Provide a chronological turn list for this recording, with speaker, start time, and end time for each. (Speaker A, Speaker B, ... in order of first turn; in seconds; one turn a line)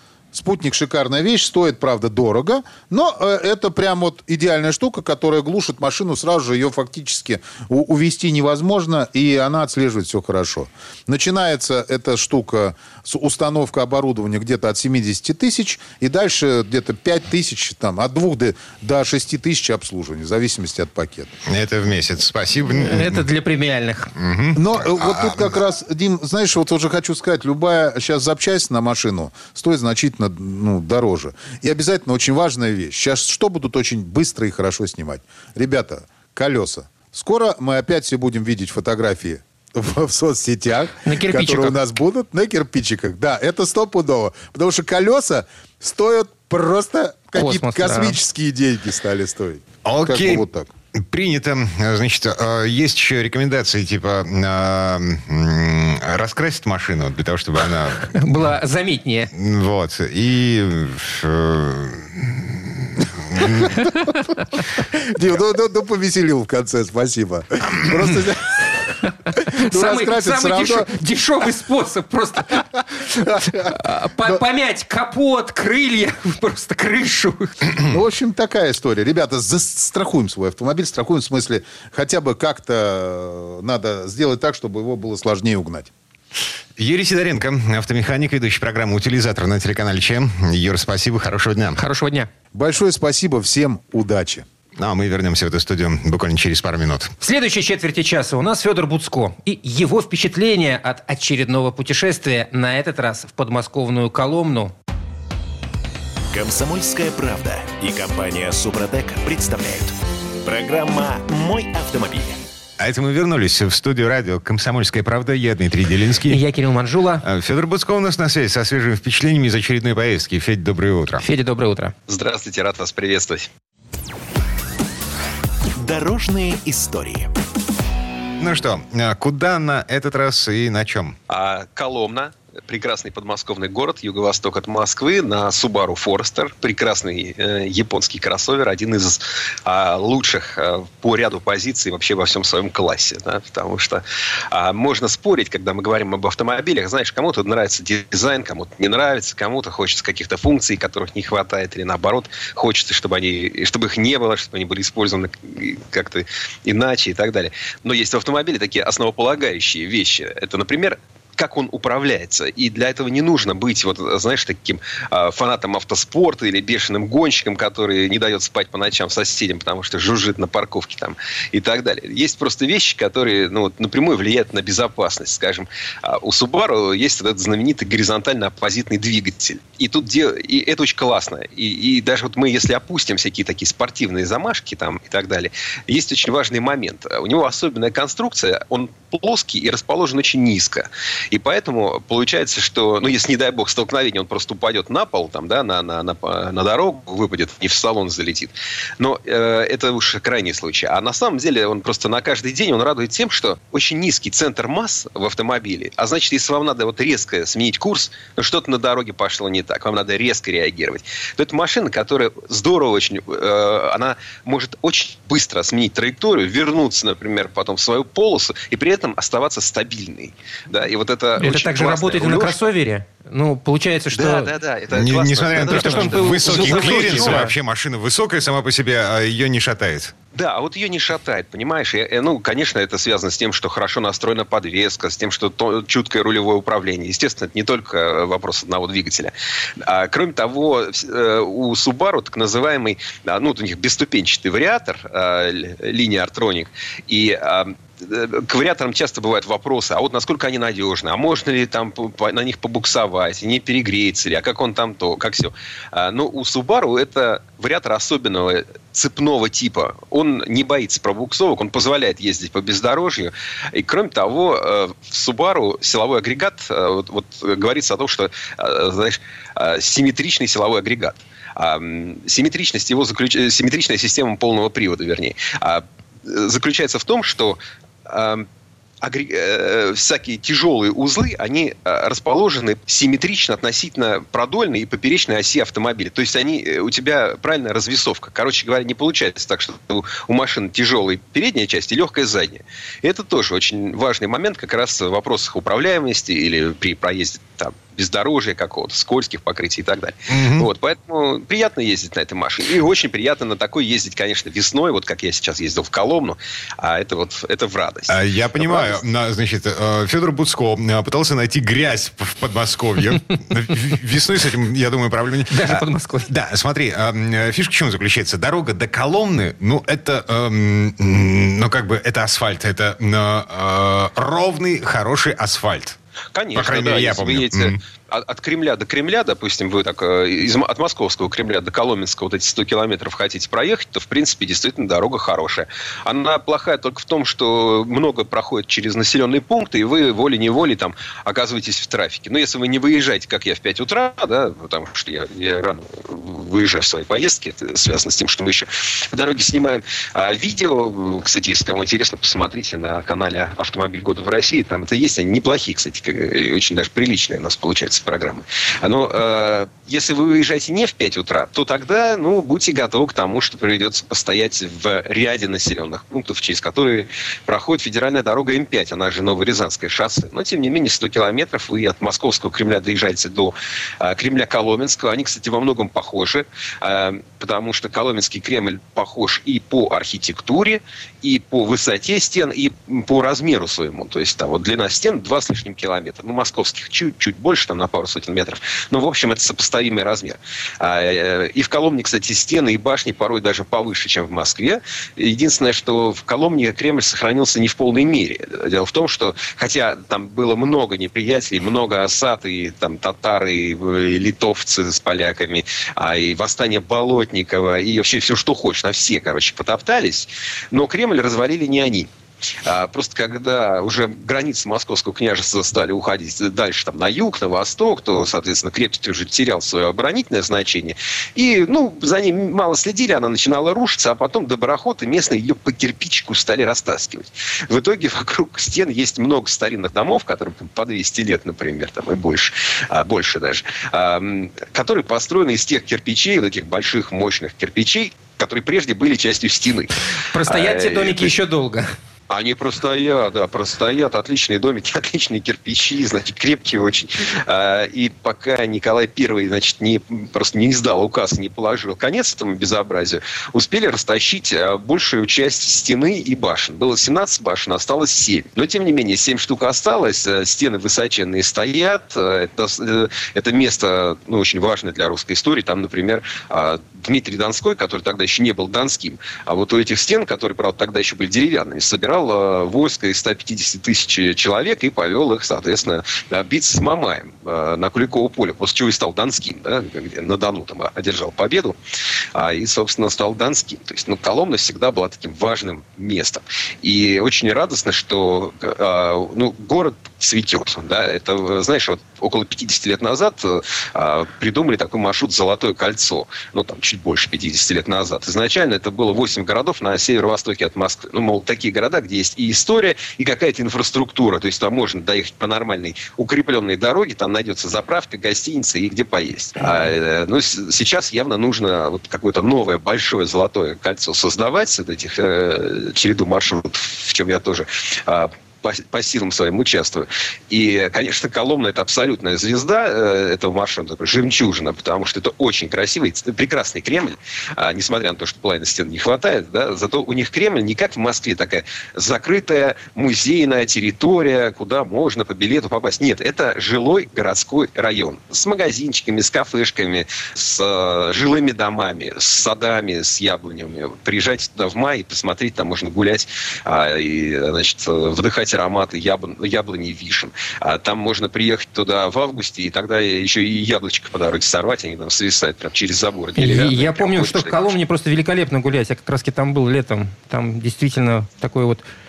Speaker A: 0.3-21.3
Speaker B: 21.4-23.2
Speaker C: 22.7-24.1
Speaker B: 24.1-25.4
Speaker A: 24.5-50.7
Speaker C: 41.0-41.8
Speaker C: 47.3-48.2
Speaker B: 49.8-50.4
Speaker B: 51.0-58.1
Speaker C: 58.1-59.3
Speaker B: 59.3-63.9
Speaker A: 64.9-71.0
Speaker C: 69.3-77.5
Speaker A: 73.2-74.4
Speaker A: 77.9-85.9
Speaker B: 86.8-91.8
Speaker C: 91.8-92.3
Speaker A: 92.5-94.4
Speaker B: 94.8-97.1
Speaker C: 97.2-104.7
Speaker D: 106.3-112.4
Speaker B: 112.8-116.4
Speaker C: 116.3-117.2
Speaker B: 117.2-121.2
Speaker C: 121.2-121.9
Speaker E: 122.1-123.5
Speaker D: 125.8-127.3
Speaker B: 128.4-131.1
Speaker E: 131.3-222.6
Speaker C: 221.4-224.5
Speaker E: 224.1-227.5
Speaker B: 224.9-230.1
Speaker C: 225.6-227.5
Speaker E: 230.3-278.5
Speaker E: 279.0-309.0
Speaker B: 300.3-300.7
Speaker B: 308.1-326.0
Speaker C: 315.5-316.3
Speaker E: 326.3-412.1
Speaker B: 326.5-327.8
Speaker E: 412.6-441.3
Speaker C: 440.3-441.9
Speaker E: 442.3-481.8
Speaker E: 482.3-557.6
Speaker C: 556.4-561.8